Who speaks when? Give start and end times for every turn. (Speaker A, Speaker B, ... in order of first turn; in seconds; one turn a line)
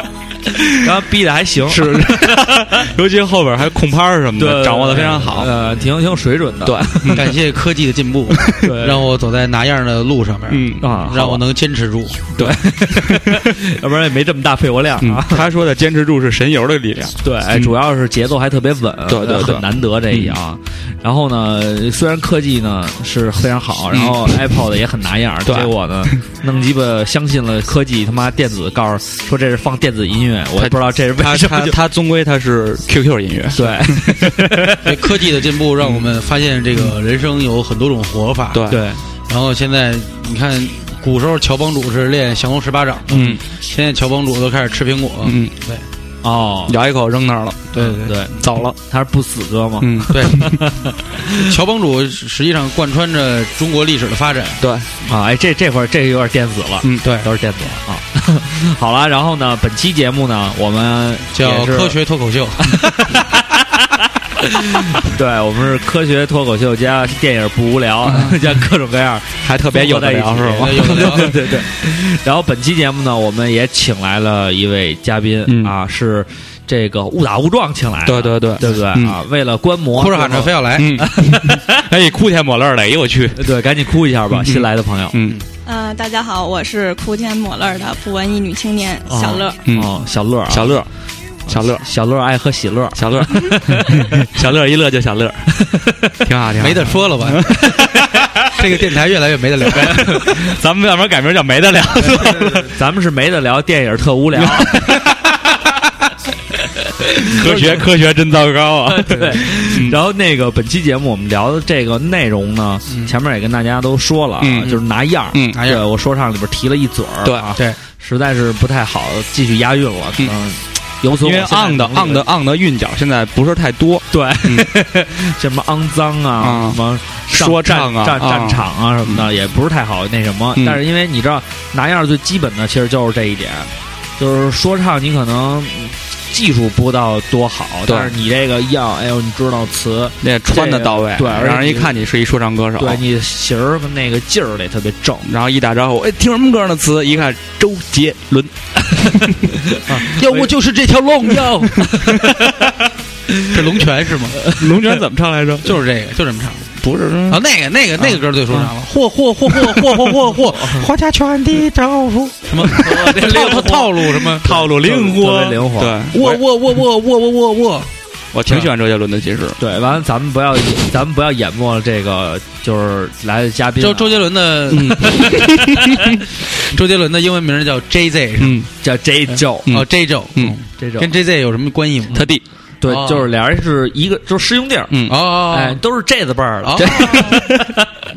Speaker A: 0.8-2.8
Speaker B: 1.7-5.5
Speaker A: 4.4-7.3
Speaker B: 6.6-7.3
Speaker C: 7.1-12.2
Speaker B: 8.3-8.7
Speaker A: 8.6-9.1
Speaker B: 10.5-10.9
Speaker A: 10.8-11.4
Speaker B: 12.4-13.4
Speaker A: 12.4-15.5
Speaker B: 15.0-17.8
Speaker A: 17.2-31.8
Speaker B: 19.1-20.4
Speaker B: 23.9-24.3
Speaker B: 25.4-26.2
Speaker B: 30.6-34.5
Speaker A: 33.5-34.9
Speaker C: 34.8-38.7
Speaker B: 35.8-36.1
Speaker B: 38.5-38.8
Speaker A: 38.7-39.0
Speaker C: 39.3-45.9
Speaker B: 43.1-43.4
Speaker B: 45.2-45.5
Speaker A: 46.2-46.8
Speaker B: 46.7-47.7
Speaker C: 47.7-48.4
Speaker A: 47.8-51.4
Speaker B: 48.4-48.8
Speaker B: 49.8-50.7
Speaker C: 50.1-50.5
Speaker C: 51.3-54.7
Speaker B: 54.6-54.9
Speaker A: 55.1-62.0
Speaker B: 56.8-57.1
Speaker C: 57.0-57.3
Speaker C: 61.3-62.8
Speaker A: 62.6-81.8
Speaker B: 68.0-68.4
Speaker B: 69.4-71.3
Speaker C: 70.6-71.5
Speaker B: 75.5-75.7
Speaker B: 78.1-79.2
Speaker C: 79.9-81.0
Speaker B: 80.8-83.4
Speaker A: 83.3-85.2
Speaker B: 84.4-85.4
Speaker D: 85.7-89.6
Speaker A: 89.1-90.8
Speaker B: 89.7-89.9
Speaker B: 90.5-90.9
Speaker B: 91.5-91.8
Speaker A: 91.5-94.1
Speaker B: 93.0-95.5
Speaker A: 95.6-96.0
Speaker B: 96.2-98.5
Speaker C: 96.6-97.6
Speaker C: 98.5-100.2
Speaker B: 99.7-102.7
Speaker A: 99.8-100.4
Speaker A: 102.0-105.0
Speaker B: 104.4-105.3
Speaker A: 107.0-107.8
Speaker B: 107.3-110.0
Speaker C: 107.5-107.8
Speaker A: 108.9-122.3
Speaker B: 114.4-114.8
Speaker B: 115.3-115.6
Speaker C: 115.5-115.8
Speaker B: 121.1-124.7
Speaker A: 124.1-142.0
Speaker B: 126.4-126.8
Speaker B: 127.3-129.3
Speaker B: 137.9-138.1
Speaker B: 140.2-143.0
Speaker A: 142.8-145.3
Speaker B: 145.3-148.5
Speaker B: 149.1-149.4
Speaker A: 149.7-150.5
Speaker C: 150.1-151.9
Speaker A: 151.8-152.3
Speaker B: 152.0-152.7
Speaker C: 153.5-154.4
Speaker A: 154.4-154.9
Speaker B: 154.4-155.8
Speaker C: 155.6-156.7
Speaker B: 156.8-157.4
Speaker C: 157.3-164.7
Speaker A: 160.5-160.9
Speaker A: 162.7-166.0
Speaker B: 164.3-166.4
Speaker C: 166.1-167.9
Speaker B: 168.3-169.6
Speaker A: 169.6-174.3
Speaker C: 173.8-175.4
Speaker B: 174.7-176.2
Speaker C: 176.6-178.6
Speaker B: 178.4-178.7
Speaker A: 178.8-179.8
Speaker C: 179.7-182.3
Speaker B: 179.7-180.6
Speaker A: 180.8-181.1
Speaker B: 182.1-182.4
Speaker A: 182.8-187.8
Speaker C: 182.8-183.3
Speaker B: 184.9-185.2
Speaker C: 185.1-185.8
Speaker C: 186.6-187.3
Speaker D: 186.9-187.4